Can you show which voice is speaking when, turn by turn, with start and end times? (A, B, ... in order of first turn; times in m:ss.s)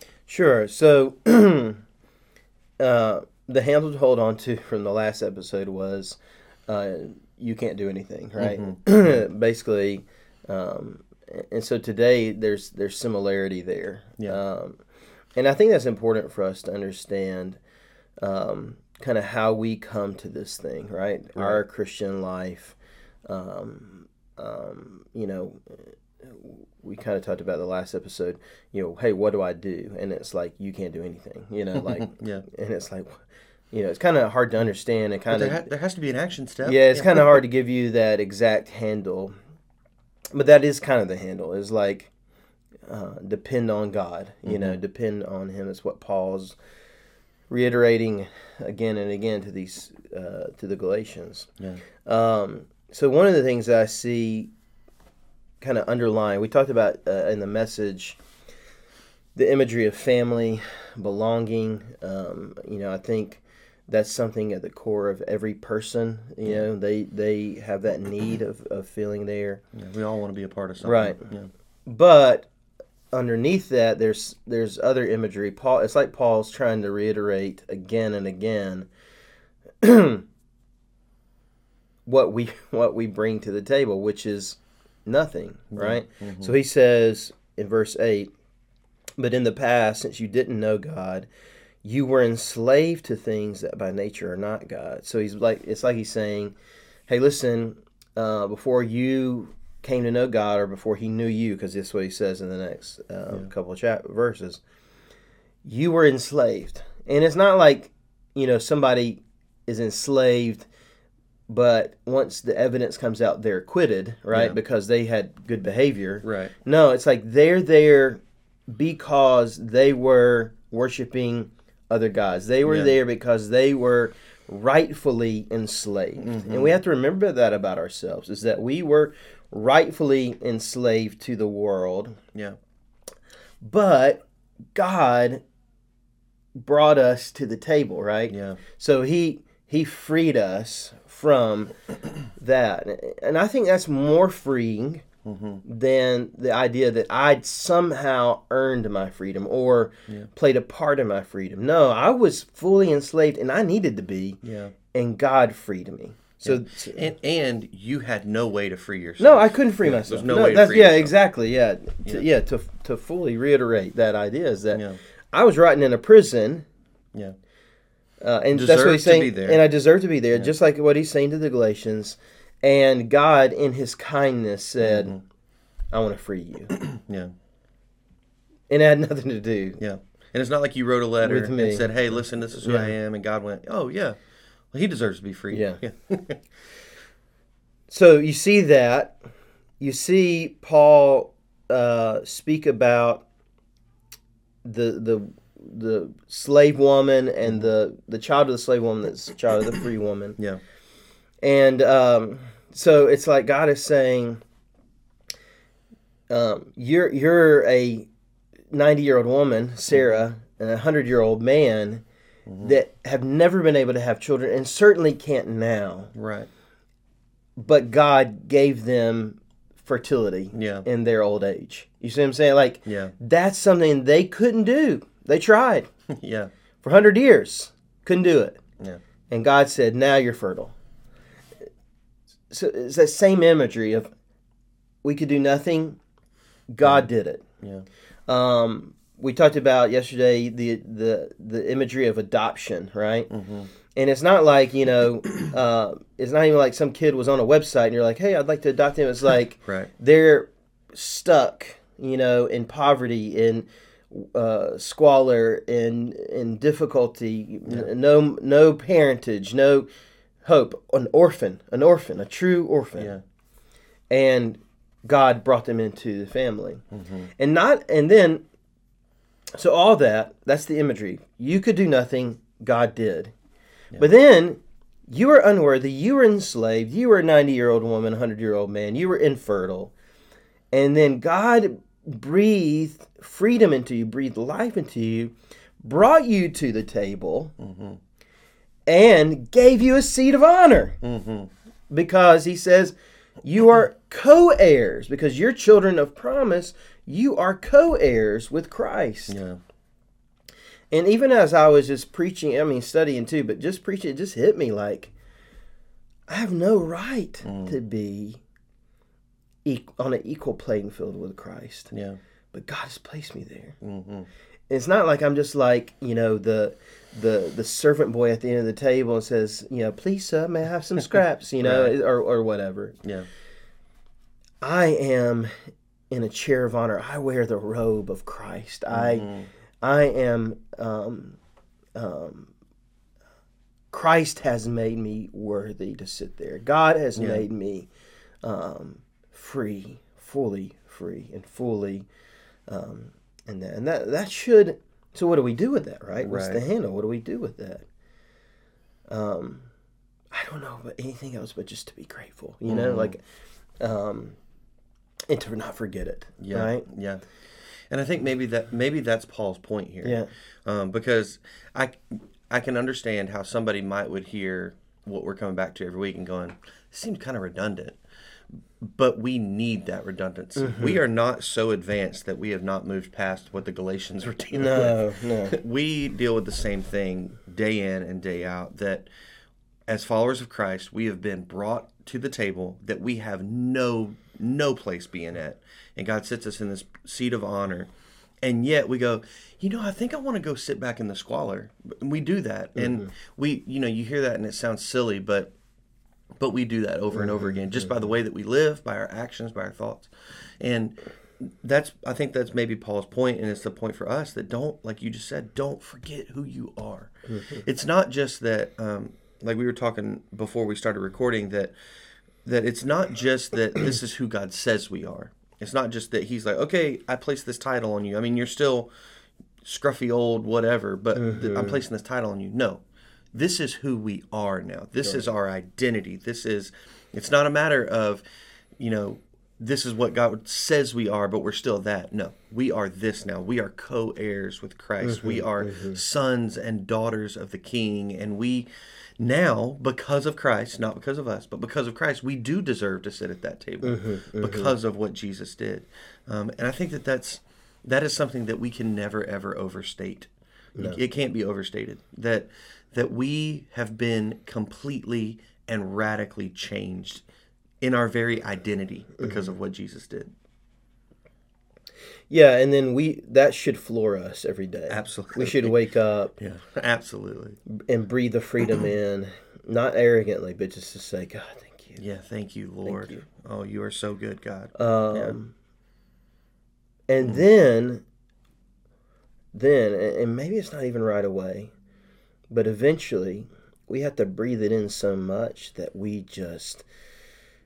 0:00.3-0:01.8 A
0:02.8-0:14.8 A
0:08.4-0:08.8 B
0:15.3-0:17.6 A
0:18.2-0:35.6 A
0:21.4-0:21.6 B
0:31.8-0:32.4 B
0:35.3-0:37.4 B
0:36.6-0:39.3 A
0:40.3-0:42.1 A
0:42.9-0:46.6 A
0:44.4-0:44.8 B
0:47.5-0:51.5 A
0:52.0-0:54.5 A
0:55.6-0:58.2 A
0:59.3-1:09.6 A
1:09.7-1:11.5 B
1:10.8-1:11.2 A
1:11.8-1:12.5 A
1:13.1-1:18.9 A
1:19.8-1:20.2 A
1:22.1-1:28.3 A
1:25.8-1:26.5 B
1:29.2-1:31.3 A
1:31.8-1:36.6 A
1:37.1-1:44.6 A
1:45.6-1:50.7 A
1:51.5-2:12.2 A
1:54.3-1:54.6 B
1:56.2-1:56.5 B
2:02.7-2:03.0 B
2:06.2-2:06.8 B
2:13.6-2:15.4 A
2:16.6-2:21.8 A
2:18.3-2:18.6 B
2:22.4-2:25.0 A
2:25.2-2:25.6 B
2:25.6-2:34.4 A
2:34.4-2:34.8 B
2:34.9-2:37.1 A
2:36.4-2:41.1 B
2:39.2-2:46.7 A
2:44.7-2:45.0 B
2:48.2-2:55.2 A
2:48.5-2:49.6 B
2:54.8-2:55.2 B
2:55.9-2:56.7 A
2:56.7-2:57.3 B
2:58.7-2:59.8 A
2:59.8-3:04.2 B
3:01.2-3:01.9 A
3:02.6-3:02.9 A
3:04.7-3:06.4 B
3:05.5-3:05.8 A
3:07.9-3:09.2 A
3:09.8-3:13.2 A
3:14.6-3:20.4 A
3:21.4-3:24.4 A
3:26.3-3:28.1 A
3:28.7-3:32.0 A
3:32.5-3:32.8 B
3:32.6-3:36.1 A
3:36.1-3:36.5 B
3:37.6-3:45.9 A
3:40.5-3:40.8 B
3:42.9-3:43.1 B
3:46.1-3:46.5 B
3:46.8-3:48.6 A
3:49.3-3:50.8 A
3:52.5-3:54.1 A
3:55.0-3:56.0 A
3:56.7-3:57.4 A
3:58.3-4:03.3 A
4:03.3-4:03.7 B
4:03.9-4:19.9 A
4:20.4-4:23.1 A
4:23.0-4:23.2 B
4:24.1-4:26.8 A
4:26.9-4:27.3 B
4:27.4-4:28.4 A
4:29.6-4:33.3 A
4:34.0-4:39.9 A
4:40.7-4:47.5 A
4:47.6-4:48.0 B
4:48.9-4:51.0 A
4:51.0-4:51.5 B
4:51.9-4:59.4 A
4:59.3-4:59.6 B
5:00.9-5:05.1 A
5:06.3-5:08.4 A
5:07.4-5:07.8 B
5:09.6-5:11.9 A
5:11.9-5:12.2 B
5:12.5-5:13.8 A
5:13.8-5:14.3 B
5:14.7-5:23.0 A
5:21.6-5:22.0 B
5:24.6-5:25.5 A
5:26.1-5:29.3 A
5:28.9-5:29.5 B
5:29.8-5:31.4 A
5:31.9-5:32.5 A
5:33.9-5:37.9 A
5:37.2-5:37.4 B
5:38.4-5:42.1 A
5:42.7-5:47.9 A
5:46.2-5:46.6 B
5:49.1-5:49.7 A
5:50.3-5:53.2 A
5:52.7-5:53.1 B
5:53.8-5:54.4 A
5:55.3-5:56.8 A
5:56.4-5:57.2 B
5:57.9-6:08.0 B
6:00.0-6:00.3 A
6:08.8-6:19.1 B
6:10.6-6:11.0 A
6:14.5-6:15.6 A
6:19.9-6:27.9 B
6:28.4-6:35.5 B
6:32.8-6:33.1 A
6:36.4-6:51.7 B
6:37.2-6:38.0 A
6:47.3-6:47.6 A
6:52.4-6:58.9 B
6:59.6-7:02.8 B
7:01.2-7:01.8 A
7:03.3-7:08.2 B
7:05.0-7:05.3 A
7:08.8-7:18.7 B
7:15.0-7:16.0 A
7:19.2-7:37.2 B
7:23.8-7:24.7 A
7:37.8-7:40.3 B
7:42.3-7:46.3 A
7:44.9-7:45.8 B
7:46.4-7:47.6 B
7:47.7-7:52.0 A
7:52.0-7:55.4 B
7:52.8-7:53.2 A
7:54.8-7:55.5 A
7:57.1-7:58.0 A
7:59.5-8:01.7 A
8:02.5-8:06.8 A